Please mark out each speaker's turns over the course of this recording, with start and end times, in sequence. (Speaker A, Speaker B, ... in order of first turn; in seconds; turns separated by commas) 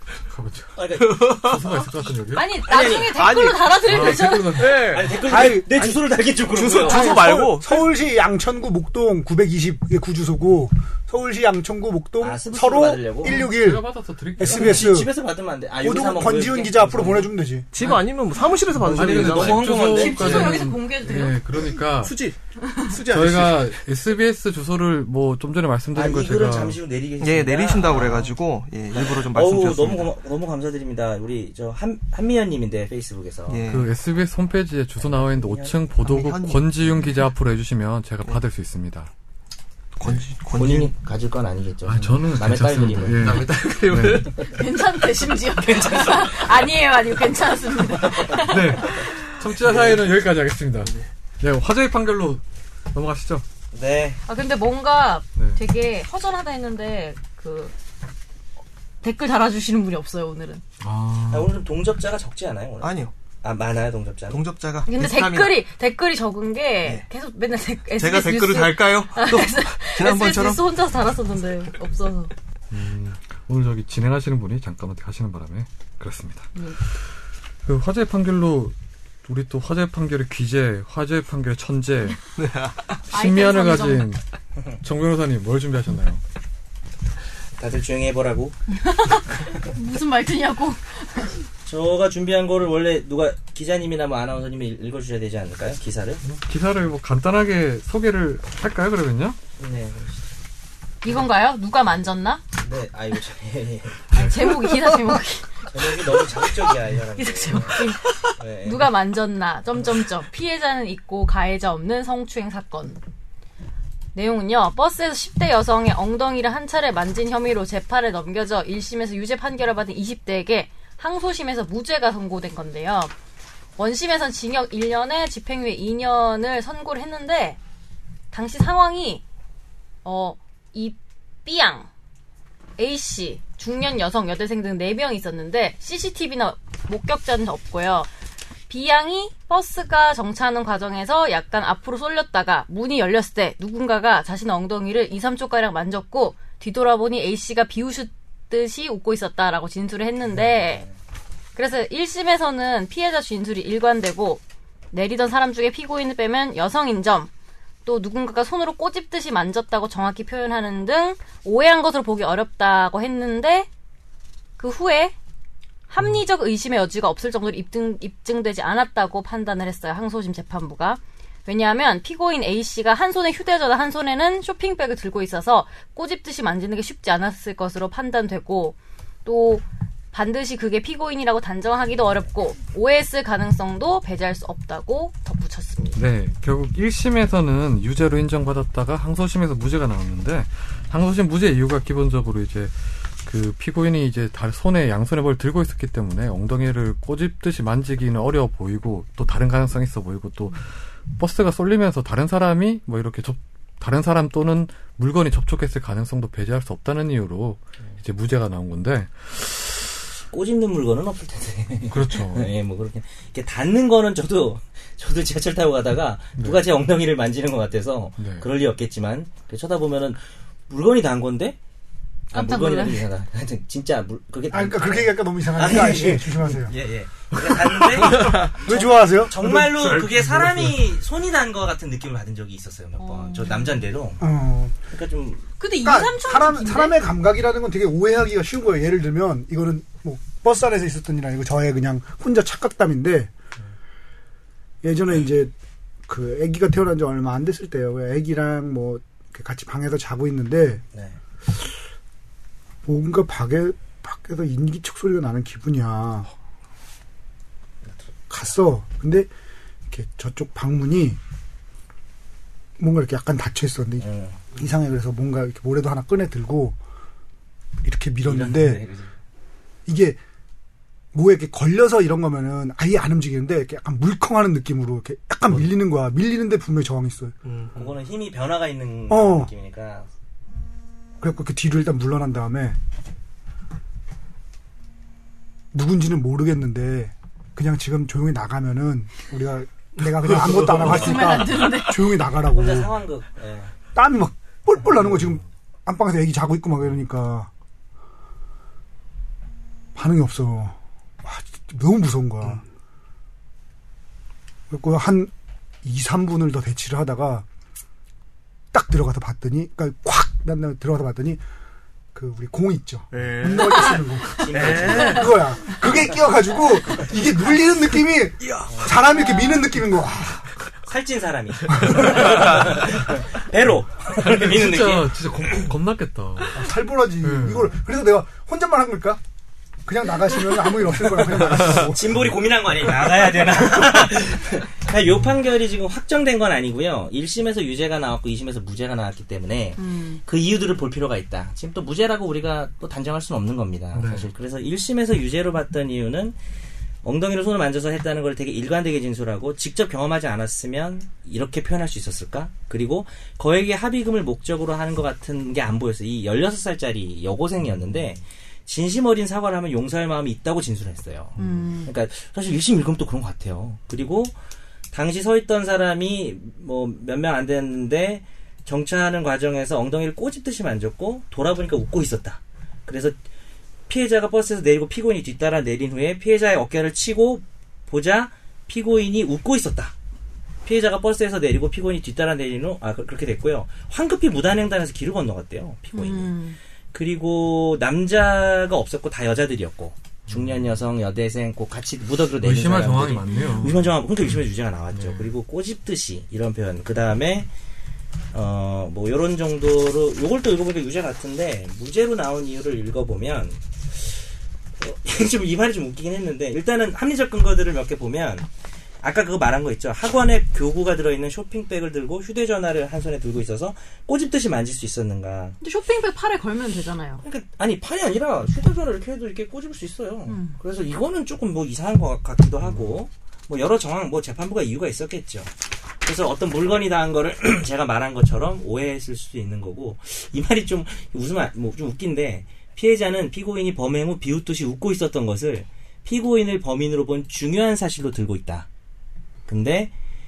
Speaker A: 0.3-2.7, Speaker B: 0.8-1.4, Speaker C: 1.0-1.8, Speaker D: 2.3-4.8, Speaker B: 2.6-3.3, Speaker C: 3.1-7.9, Speaker A: 3.8-5.0, Speaker B: 4.8-7.2, Speaker E: 5.3-5.7, Speaker E: 6.8-15.1, Speaker B: 12.2-13.4, Speaker A: 13.2-14.9, Speaker B: 14.4-17.4, Speaker E: 15.8-17.7, Speaker C: 17.7-20.5, Speaker A: 17.8-18.1, Speaker A: 18.8-22.2, Speaker B: 18.8-20.6, Speaker D: 19.9-21.4, Speaker C: 22.0-23.8, Speaker A: 23.0-26.8, Speaker B: 25.9-28.4, Speaker C: 27.2-30.1, Speaker B: 28.9-33.6, Speaker C: 33.5-33.9, Speaker A: 33.7-39.1, Speaker B: 35.0-35.8, Speaker C: 36.0-37.2, Speaker C: 40.0-40.9, Speaker B: 40.5-43.4, Speaker A: 41.9-44.3, Speaker C: 43.2-44.4, Speaker D: 44.5-49.2, Speaker B: 45.5-46.7, Speaker B: 48.0-48.4, Speaker A: 48.4-53.5, Speaker C: 49.6-50.1, Speaker C: 50.8-51.1, Speaker B: 53.7-54.2, Speaker D: 54.3-57.7, Speaker D: 59.0-60.6, Speaker A: 60.8-61.6, Speaker B: 61.2-64.4, Speaker C: 62.8-63.1, Speaker C: 64.3-65.6, Speaker D: 64.9-72.3, Speaker C: 68.0-70.7, Speaker A: 72.7-76.5, Speaker D: 76.5-76.8, Speaker A: 77.6-82.2, Speaker C: 82.4-83.0, Speaker D: 83.1-84.1, Speaker A: 83.1-84.2, Speaker A: 84.8-86.2, Speaker B: 87.6-88.5, Speaker D: 88.8-91.4, Speaker B: 91.7-96.2, Speaker A: 96.2-99.4, Speaker B: 99.6-100.2, Speaker D: 101.0-102.4, Speaker B: 102.6-104.1, Speaker D: 104.1-106.5, Speaker A: 104.1-104.5, Speaker B: 105.7-108.9, Speaker D: 107.2-113.0, Speaker D: 114.1-123.1, Speaker D: 123.8-127.6, Speaker D: 128.3-129.2, Speaker D: 130.1-131.9, Speaker D: 132.8-138.1, Speaker D: 138.7-150.8, Speaker B: 150.3-150.9, Speaker D: 151.6-157.3, Speaker D: 157.8-163.7, Speaker D: 164.6-165.2, Speaker D: 165.9-186.0, Speaker A: 185.9-209.9, Speaker B: 210.3-221.6, Speaker A: 211.9-212.5, Speaker A: 218.2-218.5, Speaker B: 222.3-234.3, Speaker D: 222.3-223.0, Speaker E: 224.5-226.8, Speaker A: 227.4-228.3, Speaker C: 228.2-228.5, Speaker E: 228.3-230.0, Speaker D: 233.0-233.8, Speaker E: 234.2-234.8, Speaker B: 234.9-235.5, Speaker D: 235.6-237.0, Speaker E: 235.8-243.3, Speaker E: 244.8-245.5, Speaker E: 246.1-250.8, Speaker E: 252.8-256.3, Speaker E: 258.3-259.3, Speaker E: 259.9-261.2, Speaker E: 262.8-266.8, Speaker B: 264.0-264.4, Speaker E: 267.8-268.9, Speaker B: 268.2-269.1, Speaker E: 269.9-270.2, Speaker E: 271.1-277.4, Speaker C: 277.4-277.9, Speaker B: 277.8-280.1, Speaker E: 279.1-279.5, Speaker E: 281.2-282.8, Speaker E: 285.7-293.0, Speaker C: 290.2-290.9, Speaker D: 290.8-292.2, Speaker B: 292.5-293.7, Speaker E: 293.9-297.5, Speaker A: 295.0-295.4, Speaker E: 299.9-302.6, Speaker E: 304.7-305.3, Speaker E: 305.8-307.5, Speaker E: 308.7-311.4, Speaker E: 312.1-320.5, Speaker C: 313.1-315.5, Speaker B: 314.3-315.3, Speaker D: 314.9-315.2, Speaker C: 318.4-319.0, Speaker B: 318.7-319.0, Speaker D: 319.1-319.6, Speaker B: 320.9-325.6, Speaker E: 321.7-322.0, Speaker A: 324.3-326.7, Speaker E: 326.5-329.2, Speaker A: 327.2-327.8, Speaker E: 329.9-332.1, Speaker B: 331.3-346.4, Speaker D: 339.8-340.2, Speaker A: 343.9-344.3, Speaker B: 347.0-364.3, Speaker D: 361.4-361.9, Speaker B: 364.9-373.2, Speaker B: 373.9-379.9, Speaker B: 380.6-386.4, Speaker D: 385.9-386.6, Speaker B: 386.9-397.5, Speaker A: 390.3-390.6, Speaker A: 392.4-394.0, Speaker D: 393.3-393.7, Speaker A: 394.9-395.3, Speaker B: 398.3-404.2, Speaker B: 404.8-408.5, Speaker B: 409.0-415.6, Speaker D: 415.6-417.2, Speaker B: 417.2-425.5, Speaker D: 420.3-420.6, Speaker A: 422.6-423.0, Speaker B: 426.0-438.7, Speaker B: 439.5-439.9